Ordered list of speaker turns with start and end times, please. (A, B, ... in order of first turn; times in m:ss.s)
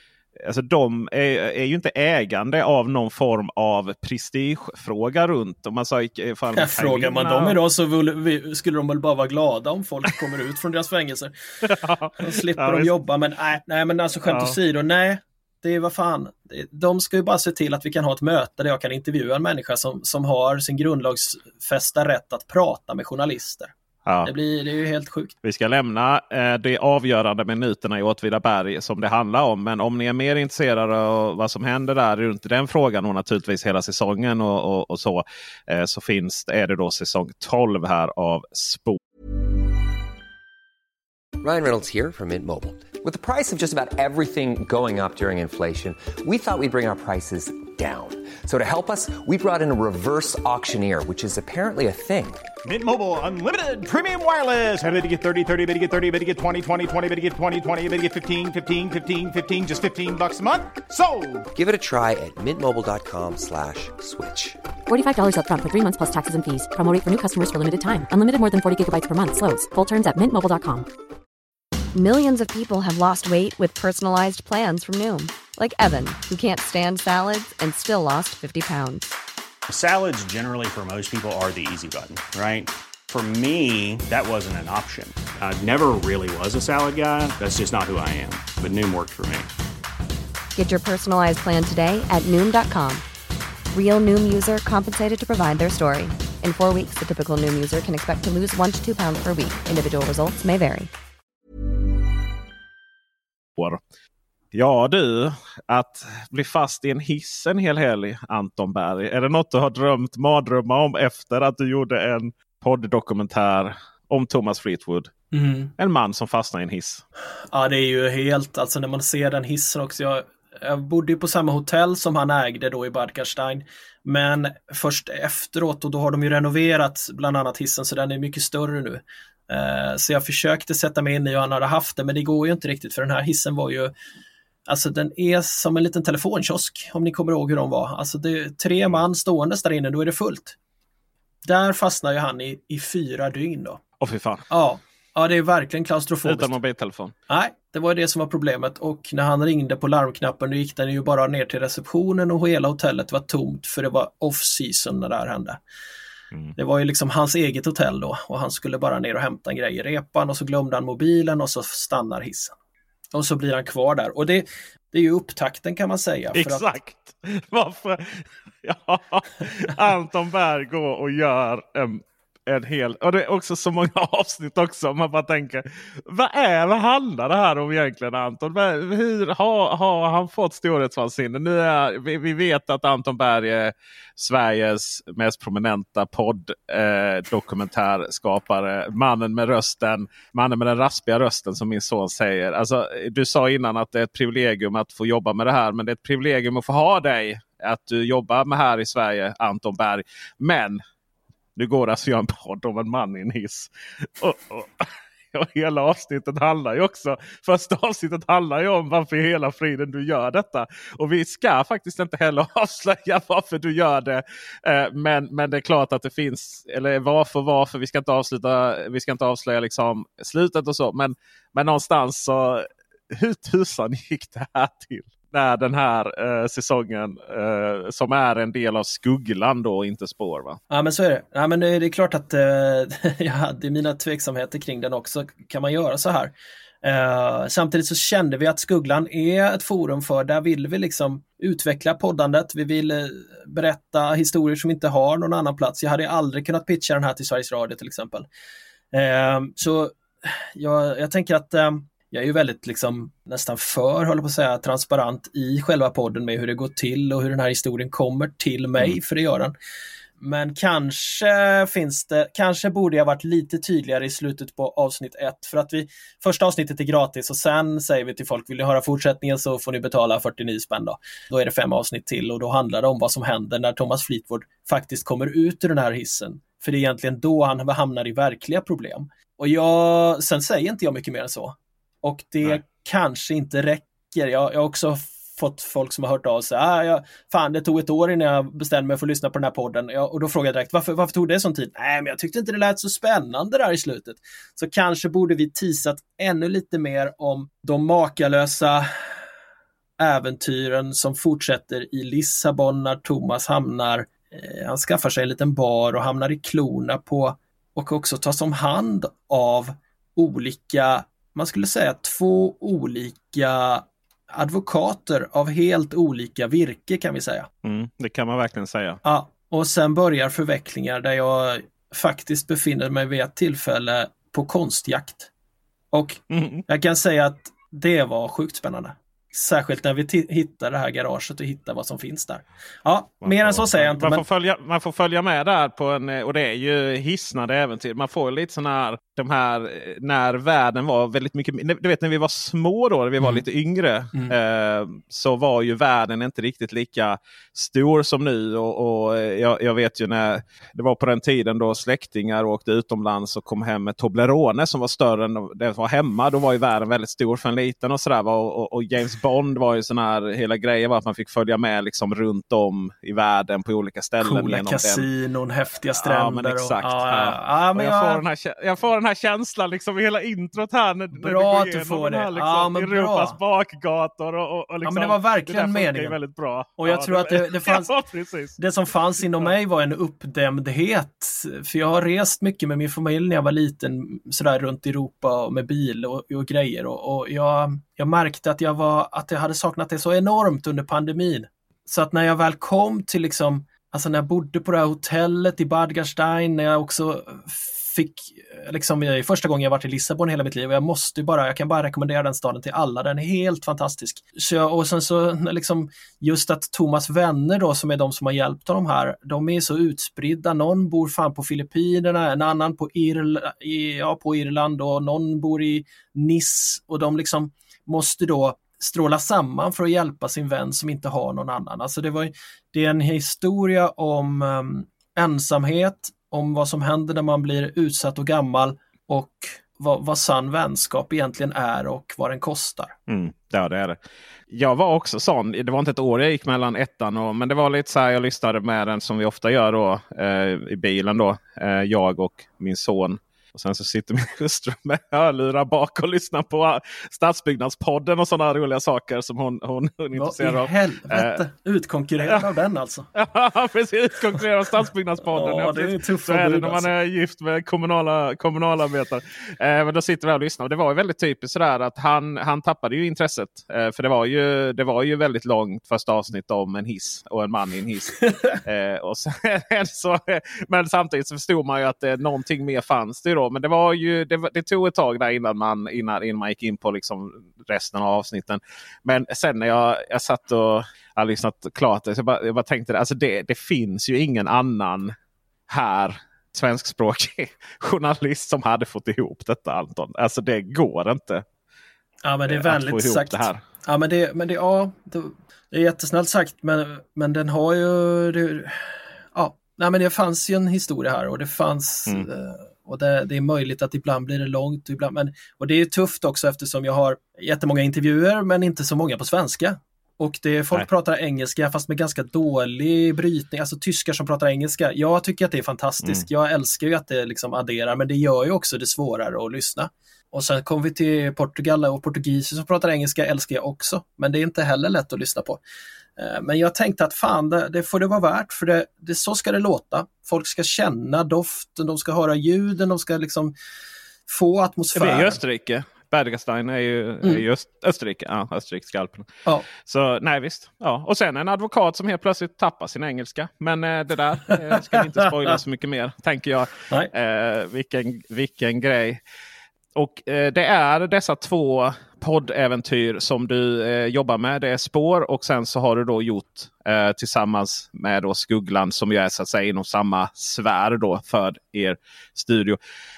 0:00.4-0:07.6 A
0:06.5-0:11.3 B
0:11.6-0:12.9 A
0:12.2-0:23.7 B
0:14.3-0:14.6 A
0:24.0-0:24.3 A
0:24.2-0:25.3 B
0:25.4-0:39.0 A
0:41.4-0:52.5 C
0:52.6-1:01.5 D
1:01.5-1:04.6 C
1:04.9-1:10.9 E
1:11.9-1:19.1 F
1:19.7-1:29.5 G
1:30.5-1:33.0 F
1:33.7-1:40.9 F
1:44.5-1:55.1 A
1:55.3-1:55.7 B
1:55.8-1:57.0 A
1:57.5-2:13.9 B
2:14.7-2:20.6 B
2:21.4-2:23.8 B
2:24.0-2:24.4 A
2:24.5-2:26.5 B
2:26.2-2:27.1 A
2:27.3-2:35.6 B
2:36.6-2:42.5 B
2:43.1-2:46.6 B
2:46.3-3:20.8 A
3:21.6-3:50.6 A
3:50.7-4:08.3 B
4:08.9-4:19.5 B
4:20.2-4:58.9 B
5:00.0-5:17.5 B
5:17.6-5:19.0 A
5:19.0-5:25.3 B
5:25.9-5:34.2 B
5:26.3-5:26.6 A
5:33.2-6:05.0 A
6:04.2-6:08.2 B
6:05.9-6:18.6 A
6:11.1-6:13.4 B
6:14.8-6:16.2 B
6:16.8-6:17.9 B
6:18.6-7:12.9 B
7:13.1-7:14.0 A
7:14.5-7:31.4 A
7:30.2-7:33.1 B
7:33.1-8:05.1 A
7:35.3-7:36.9 B
8:05.7-8:11.4 A
8:12.2-8:45.6 B
8:12.5-8:13.6 A
8:46.2-8:53.5 B
8:54.3-8:55.4 B
8:54.9-8:59.3 A
8:59.8-9:09.2 A
9:09.9-9:22.8 A